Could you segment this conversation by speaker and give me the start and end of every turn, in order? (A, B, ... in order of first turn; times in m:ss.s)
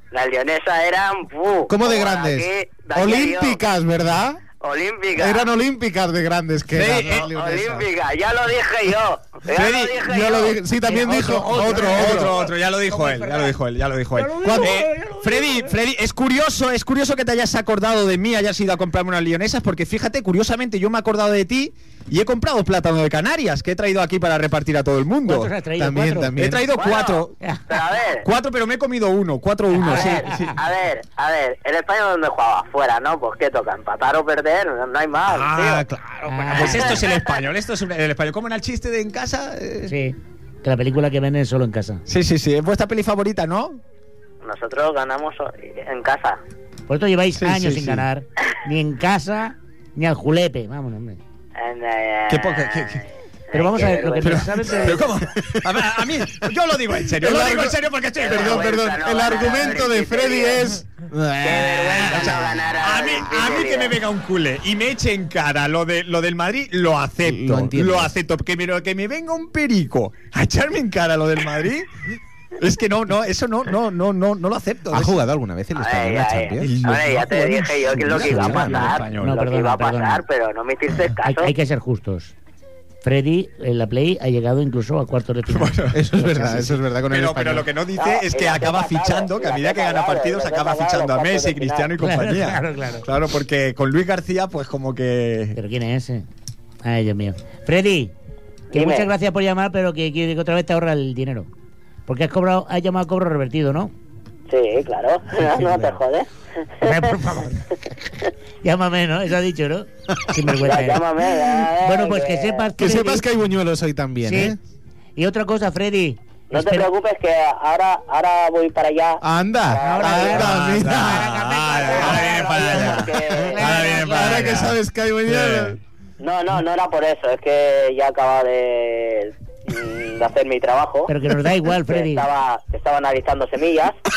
0:00.1-0:03.6 A
0:01.7-0:04.4 B
0:04.6-0:05.5 A
0:05.2-0:07.9 B
0:06.7-0:07.3 C
0:07.2-0:10.6 A
0:09.5-0:10.1 C
0:10.0-0:12.4 B
0:10.9-0:13.5 D
0:11.5-0:25.5 C
0:14.2-0:15.8 D
0:14.4-0:14.8 B
0:25.3-0:26.4 D
0:25.8-0:26.6 B
0:26.4-0:27.4 C
0:26.7-0:28.2 A
0:28.2-0:30.6 C
0:29.8-0:30.5 D
0:29.8-0:35.9 A
0:35.3-0:39.9 C
0:36.3-0:37.0 D
0:36.6-0:37.3 A
0:39.9-0:42.0 D
0:42.1-0:43.8 C
0:44.4-0:46.4 A
0:46.9-0:51.2 D
0:47.4-0:48.1 C
0:51.6-0:53.0 A
0:52.3-0:53.0 C
0:53.5-0:55.2 A
0:53.5-0:55.1 D
0:54.2-0:59.0 C
0:57.2-0:57.8 B
0:58.2-1:00.7 A
0:58.3-1:02.4 B
1:01.4-1:04.0 A
1:01.4-1:11.9 C
1:07.2-1:08.1 B
1:12.6-1:15.2 C
1:14.9-1:16.8 B
1:15.8-1:21.5 A
1:16.6-1:19.4 C
1:18.3-1:18.9 B
1:19.1-1:20.2 D
1:21.2-1:22.3 D
1:23.0-1:26.7 D
1:25.5-1:26.0 C
1:25.9-1:27.7 B
1:27.1-1:35.6 C
1:28.0-1:31.9 A
1:32.0-1:33.1 D
1:35.6-1:36.3 D
1:36.8-1:38.1 D
1:38.7-1:39.1 A
1:38.7-1:41.5 D
1:42.1-1:43.9 D
1:44.5-1:46.3 A
1:45.6-1:45.9 D
1:46.8-1:48.1 D
1:48.6-1:51.1 D
1:50.6-1:52.7 A
1:51.8-1:53.2 D
1:52.8-1:54.6 B
1:54.2-1:54.6 D
1:55.2-1:56.8 D
1:56.5-2:00.5 A
1:59.2-2:01.2 B
1:59.8-2:04.7 D
2:00.3-2:05.8 C
2:01.8-2:04.0 A
2:04.0-2:05.8 B
2:06.2-2:11.1 A
2:11.1-2:12.2 D
2:11.8-2:14.0 A